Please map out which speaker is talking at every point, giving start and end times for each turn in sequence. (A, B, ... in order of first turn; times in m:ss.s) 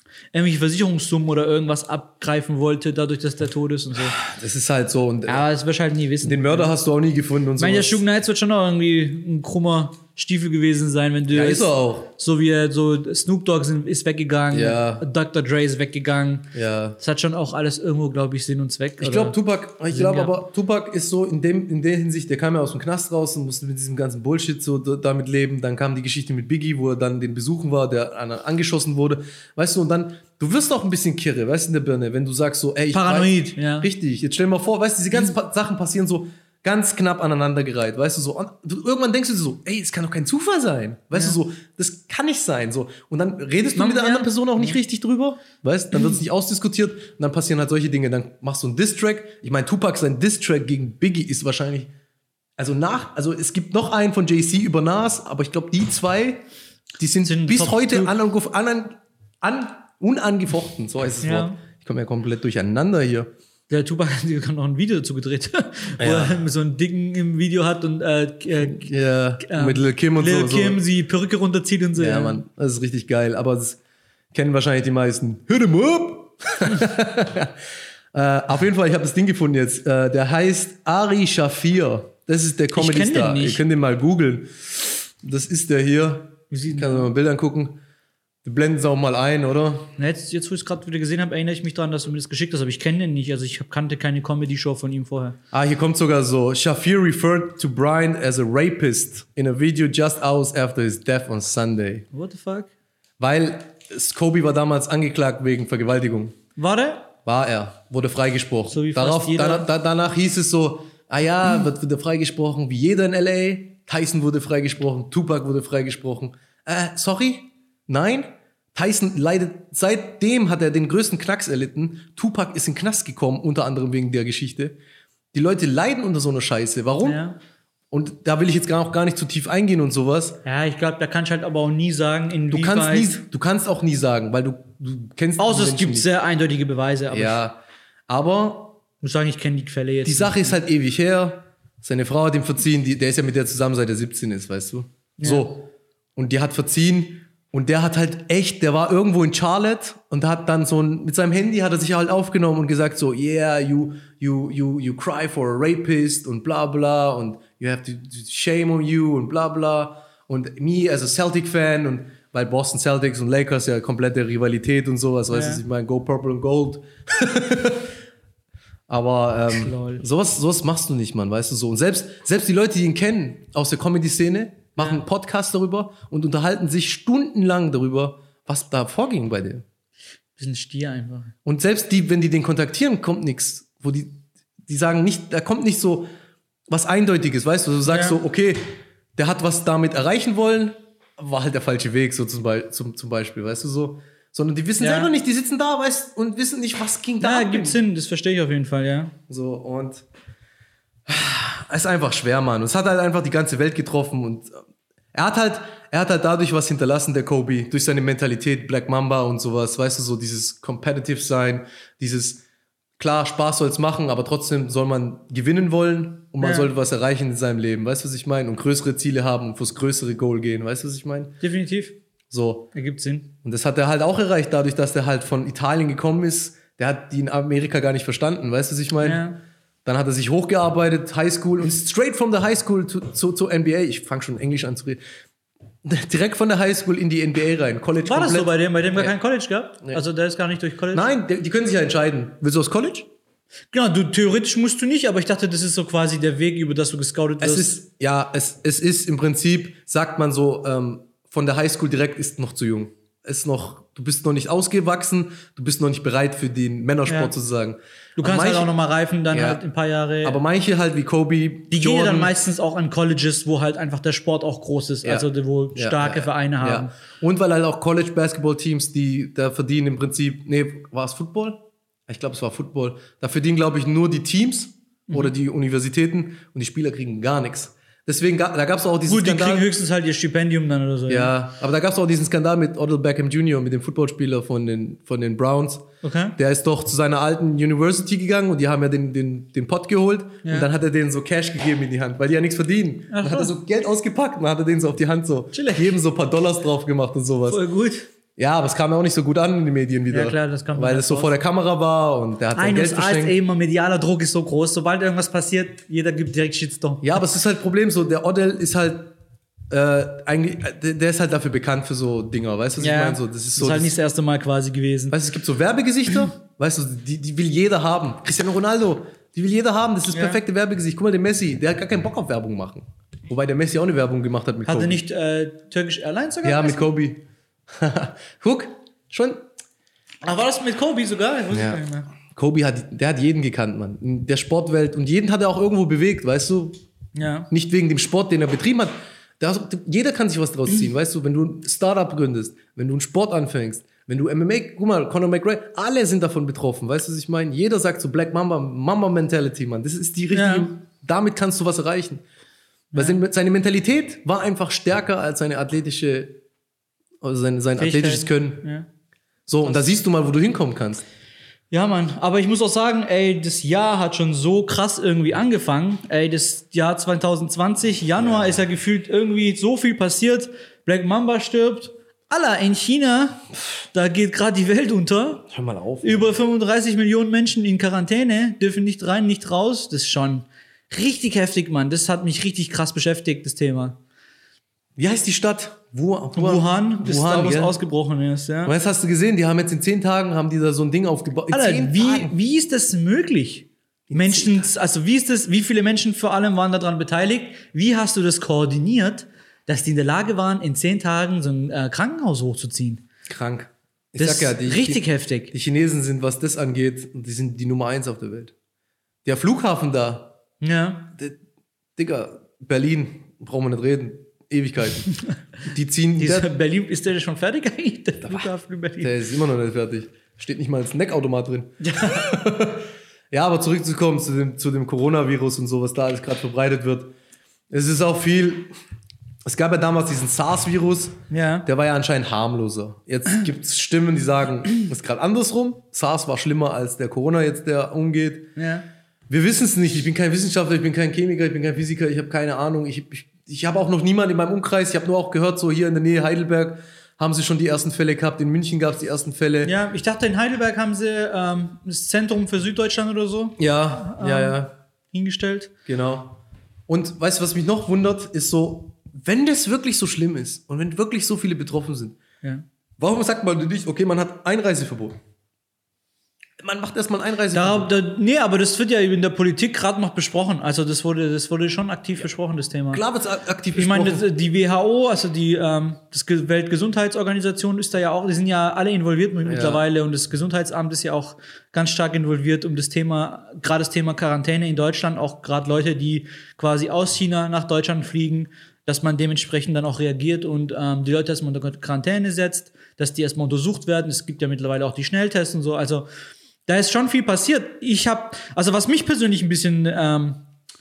0:00.3-0:04.2 A
0:04.1-0:05.4 B
0:05.3-0:06.7 A
0:06.2-0:08.0 B
0:07.6-0:19.4 A
0:11.3-0:12.1 B
0:14.5-0:15.0 B
0:16.5-0:17.0 B
0:19.0-0:51.9 B
0:19.9-0:20.3 A
0:32.9-0:33.9 A
0:43.7-0:44.8 A
0:52.6-0:56.4 B
0:57.0-1:03.3 B
0:57.2-0:58.1 A
1:01.2-1:01.6 A
1:03.7-1:12.4 A
1:06.0-1:06.4 B
1:08.6-1:10.8 B
1:12.0-1:13.8 B
1:14.3-1:17.5 B
1:18.1-1:27.8 B
1:22.7-1:23.6 A
1:26.5-1:27.1 A
1:28.4-1:29.9 B
1:30.0-1:35.4 A
1:35.5-1:42.0 B
1:42.1-1:42.7 A
1:43.2-1:46.4 B
1:46.6-1:47.1 A
1:47.2-2:04.8 B
1:48.7-1:49.7 A
2:05.3-2:07.2 B
2:07.0-2:07.4 A
2:07.9-2:10.4 B
2:10.4-2:13.2 A
2:12.5-2:16.1 B
2:15.4-2:17.4 A
2:17.1-2:18.8 B
2:19.0-2:20.6 A
2:20.0-2:47.9 B
2:25.2-2:25.5 A
2:45.3-2:45.6 A
2:48.9-2:59.6 B
2:49.5-2:50.0 A
3:00.4-3:01.3 A
3:01.4-3:06.1 B
3:06.7-3:08.6 B
3:07.8-3:08.2 A
3:09.2-3:17.8 B
3:14.8-3:15.1 A
3:17.2-3:19.1 A
3:19.3-3:20.0 B
3:21.1-3:24.6 B
3:25.1-3:32.4 B
3:33.0-3:41.4 B
3:36.4-3:36.7 A
3:41.4-3:42.0 A
3:42.3-3:42.7 B
3:42.7-3:43.3 A
3:43.4-3:49.2 B
3:49.0-3:49.4 A
3:49.8-3:55.0 B
3:55.8-3:59.1 B
3:58.0-4:01.1 A
4:00.9-4:03.1 B
4:03.7-4:07.7 A
4:07.4-4:18.7 B
4:17.1-4:17.3 A
4:18.2-4:20.4 A
4:19.3-4:19.6 B
4:20.2-4:22.3 B
4:21.7-4:26.9 A
4:25.0-4:39.7 B
4:39.1-4:41.3 A
4:41.1-4:57.6 B
4:46.0-4:46.4 A
4:53.1-4:53.5 A
4:55.5-4:55.9 A
4:57.5-4:58.1 A
4:58.4-5:03.3 B
5:00.1-5:01.3 A
5:02.5-5:07.2 A
5:07.0-5:09.1 B
5:09.7-5:13.9 B
5:12.8-5:15.1 A
5:15.1-5:25.0 B
5:20.1-5:20.4 A
5:24.6-5:26.9 A
5:26.4-5:29.4 B
5:30.2-5:32.1 A
5:31.5-5:36.8 B
5:37.1-5:37.5 A
5:37.5-5:52.2 B
5:50.3-5:50.7 A
5:52.9-5:53.2 A
5:52.9-5:56.4 B
5:57.2-5:58.6 B
5:57.8-5:58.9 A
5:59.5-6:01.0 B
6:01.7-6:13.4 A
6:08.2-6:08.5 B
6:13.9-6:15.4 A
6:15.5-6:16.3 B
6:16.0-6:24.0 A
6:25.0-6:27.8 B
6:26.4-6:28.7 A
6:28.6-6:32.3 B
6:31.5-6:43.0 A
6:34.1-6:34.7 B
6:43.3-6:48.5 B
6:44.2-6:45.5 A
6:49.2-6:50.4 B
6:50.6-6:51.1 A
6:52.0-6:56.5 B
6:56.2-6:59.1 A
6:59.0-7:07.1 B
7:01.8-7:02.3 A
7:07.7-7:08.7 B
7:09.4-7:18.6 B
7:11.3-7:11.7 A
7:18.6-7:18.8 A
7:19.3-7:29.7 B
7:29.6-7:34.6 A
7:33.6-7:34.7 B
7:35.1-7:35.7 A
7:35.8-7:42.2 B
7:43.0-7:45.2 B
7:46.6-7:47.9 B
7:47.5-7:53.0 A
7:52.9-7:54.2 B
7:53.7-8:16.0 A
7:59.4-7:59.8 B
8:16.6-8:20.4 A